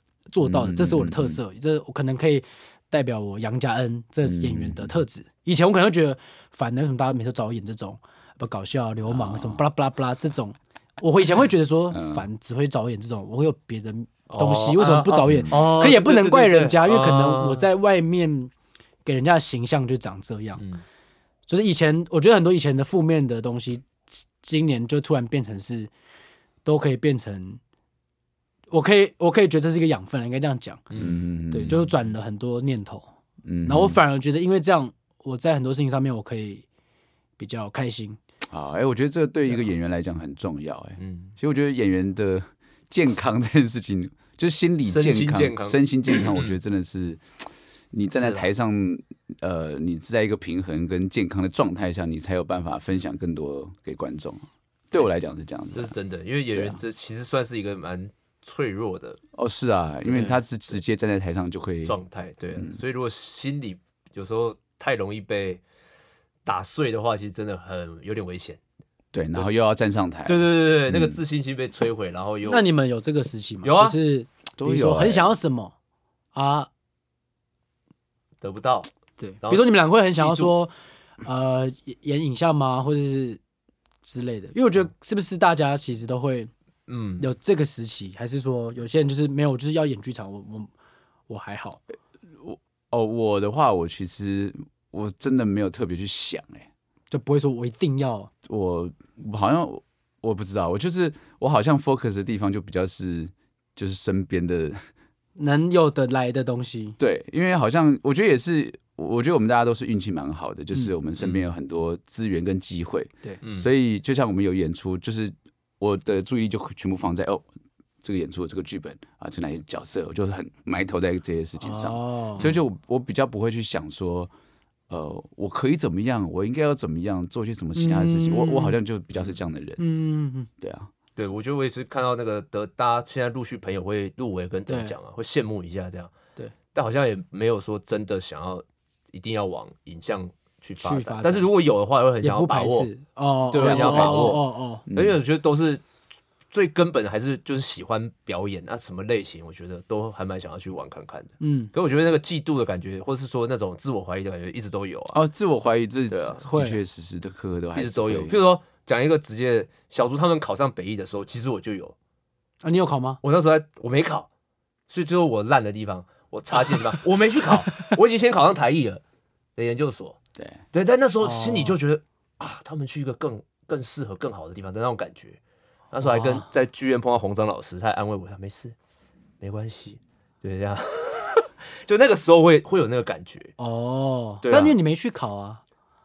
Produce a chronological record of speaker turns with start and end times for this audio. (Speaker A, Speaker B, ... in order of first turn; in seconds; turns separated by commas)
Speaker A: 0.3-18.5, Speaker B: 0.4-1.4, Speaker B: 4.2-5.0, Speaker B: 9.1-9.6, Speaker B: 11.9-12.2, Speaker C: 14.3-17.7, Speaker B: 15.2-15.5, Speaker A: 19.0-20.6, Speaker C: 20.6-20.8, Speaker A: 21.5-25.9, Speaker A: 26.6-27.6, Speaker A: 28.7-30.9, Speaker C: 30.9-31.2, Speaker B: 31.0-31.9, Speaker A: 31.5-33.0, Speaker B: 33.4-34.0, Speaker A: 33.6-36.6, Speaker A: 37.4-38.2, Speaker B: 38.5-47.2, Speaker C: 41.0-41.3, Speaker C: 44.8-46.6, Speaker B: 47.9-55.9, Speaker C: 48.1-48.5, Speaker C: 55.7-59.2, Speaker B: 56.5-56.8, Speaker B: 59.3-62.0, Speaker C: 60.1-60.4, Speaker C: 61.8-65.6, Speaker C: 66.5-68.6, Speaker B: 69.1-71.2, Speaker C: 70.2-72.6, Speaker A: 72.5-75.7, Speaker C: 73.6-74.0, Speaker B: 74.6-75.3, Speaker A: 76.3-76.7, Speaker C: 78.4-78.9, Speaker A: 79.2-80.7, Speaker C: 79.4-80.5, Speaker A: 81.2-83.4, Speaker A: 84.1-86.5, Speaker C: 86.9-87.2, Speaker A: 87.2-90.7, Speaker A: 91.3-91.8, Speaker B: 92.3-96.7, Speaker A: 97.1-98.3, Speaker B: 98.5-104.8, Speaker A: 105.3-107.0, Speaker B: 107.0-117.4, Speaker C: 111.2-111.5, Speaker C: 113.4-113.7, Speaker B: 118.0-124.3, Speaker A: 121.6-122.5, Speaker B: 124.9-129.8, Speaker A: 127.7-128.8, Speaker A: 129.8-130.5, Speaker B: 130.6-130.9, Speaker C: 131.2-136.1, Speaker A: 134.7-134.9, Speaker C: 136.7-142.9, Speaker A: 140.8-141.5, Speaker A: 142.2-144.8, Speaker C: 143.5-145.8, Speaker B: 143.6-145.2, Speaker C: 146.5-155.2, Speaker A: 151.4-151.7, Speaker B: 155.1-158.4, Speaker C: 156.1-156.4, Speaker A: 156.5-156.8, Speaker C: 157.8-161.9, Speaker A: 162.6-163.2, Speaker C: 163.2-164.3, Speaker C: 164.9-169.0, Speaker C: 169.6-170.2, Speaker C: 170.7-175.4, Speaker A: 171.2-171.8, Speaker C: 175.9-178.7, Speaker A: 176.0-176.5, Speaker C: 179.4-183.5, Speaker A: 183.6-185.6, Speaker C: 184.4-184.8